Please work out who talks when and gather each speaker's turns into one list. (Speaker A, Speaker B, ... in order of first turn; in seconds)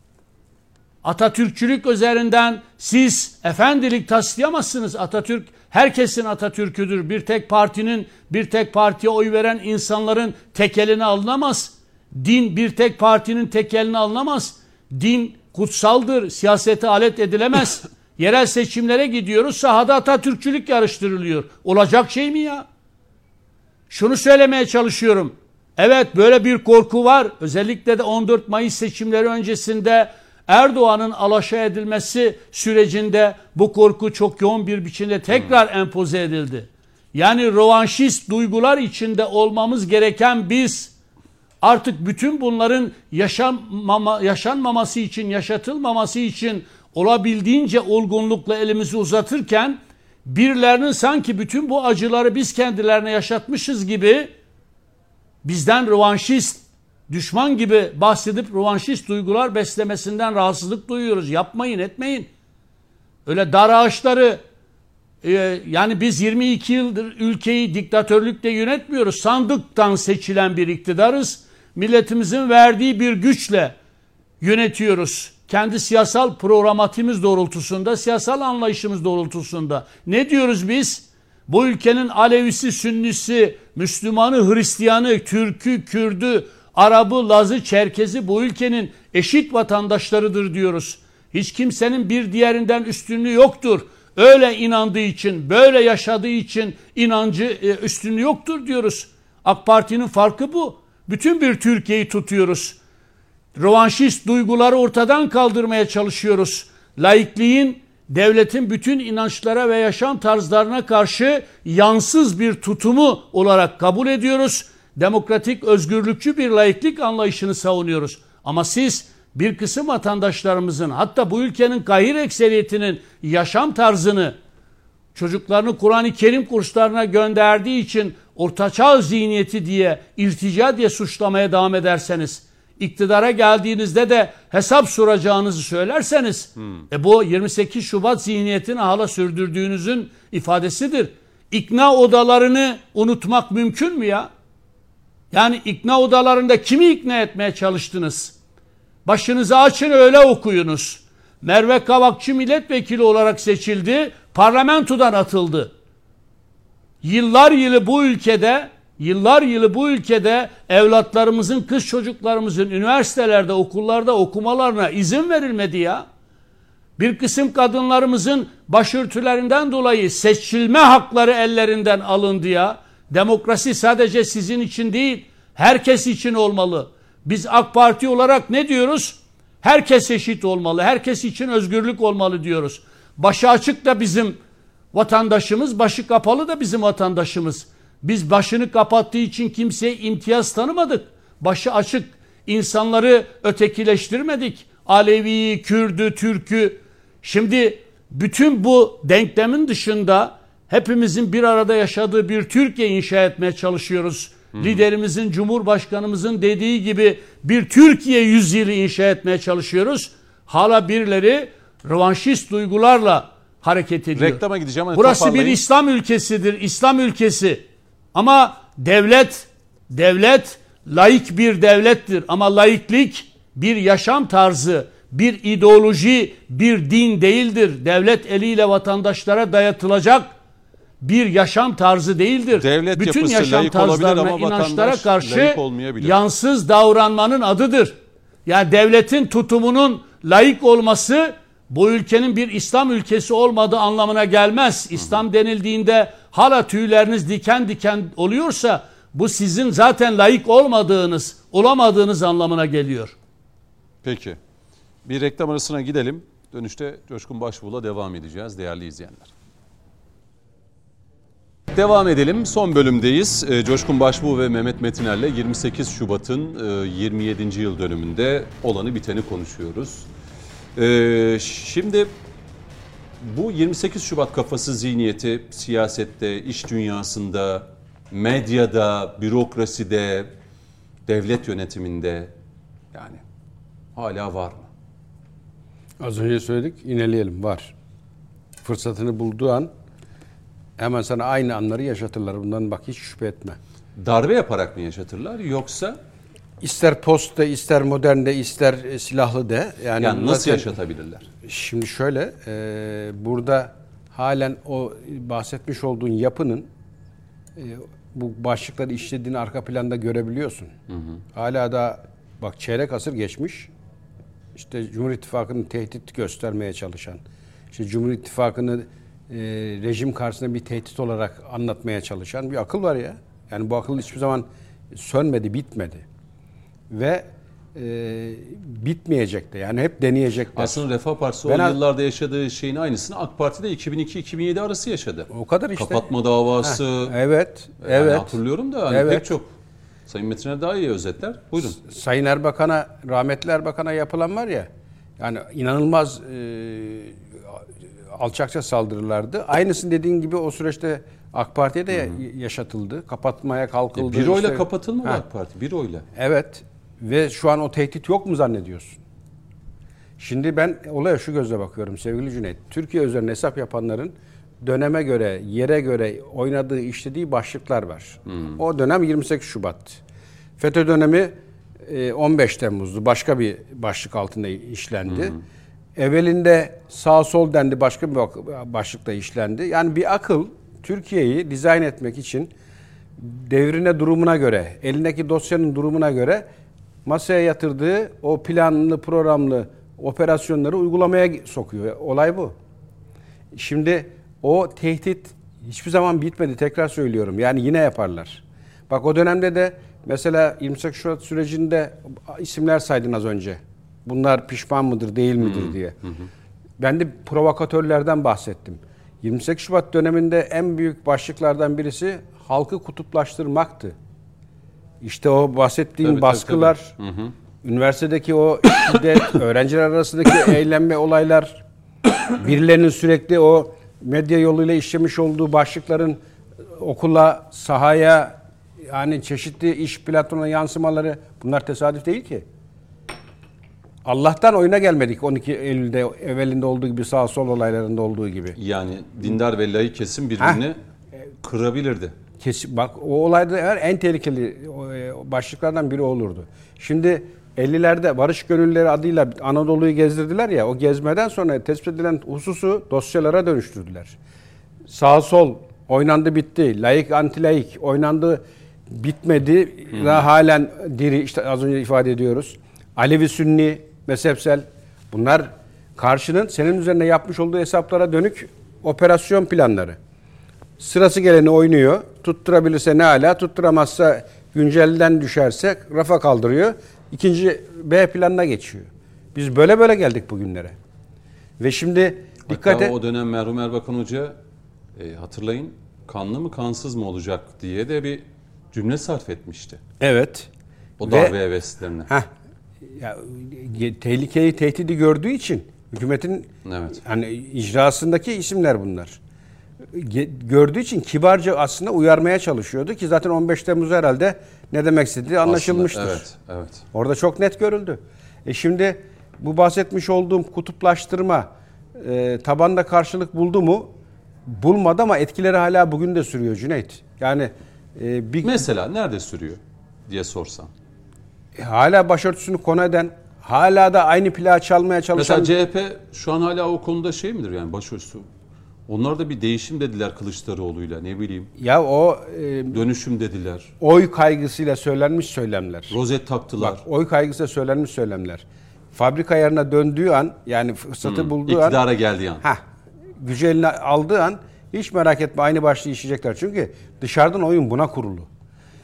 Speaker A: 1.0-22.6, 23.9-40.9, 41.6-54.3, 55.4-62.3, 63.2-64.4, 65.2-73.7, 74.4-102.8, 103.5-124.3, 125.1-144.3, 145.3-148.3, 149.1-155.7, 157.0-166.0, 167.0-184.4, 184.9-214.4, 214.9-217.6, 218.1-230.3, 231.0-253.1
Speaker B: 204.5-204.8, 214.2-215.6, 232.6-236.2, 254.0-254.4, 255.0-259.3, 261.7-270.1, 270.8-272.1, 273.2-280.3, 281.1-282.3, 282.9-283.2, 283.9-284.7, 294.0-296.0, 300.0-301.3, 310.9-311.2, 330.6-337.1, 337.8-339.5, 340.1-341.8, 353.9-356.0, 368.3-368.6, 405.4-406.3, 416.0-417.3, 438.6-440.8, 441.4-442.1, 459.9-460.2, 482.5-484.3, 484.9-489.8, 491.0-492.1, 496.6-497.0, 505.4-506.8, 518.4-520.7, 525.1-528.2, 528.9-531.5, 532.7-533.7, 535.9-536.8, 541.0-542.4
Speaker C: 286.0-287.7, 288.6-289.7, 290.8-293.6, 296.6-300.7, 301.4-306.7, 307.6-310.7, 311.3-313.7, 314.5-317.2, 317.7-326.0, 326.9-330.8, 331.4-331.8, 335.3-336.0, 336.6-338.3, 338.9-339.2, 341.8-344.7, 345.2-355.2, 356.1-359.0, 360.2-370.0, 370.6-375.3, 375.9-382.5, 383.2-386.4, 387.0-392.5, 393.5-405.9, 406.8-413.9, 415.0-416.9, 417.6-421.6, 422.3-426.2, 426.7-432.4, 434.0-438.6, 442.4-454.1, 454.9-469.9, 470.8-480.8, 481.6-482.9, 490.0-490.5, 491.1-491.3, 492.8-499.2, 499.9-506.2, 506.9-513.9, 514.5-518.6, 521.5-525.5, 531.6-532.8, 533.8-536.0, 536.6-541.8, 543.2-548.3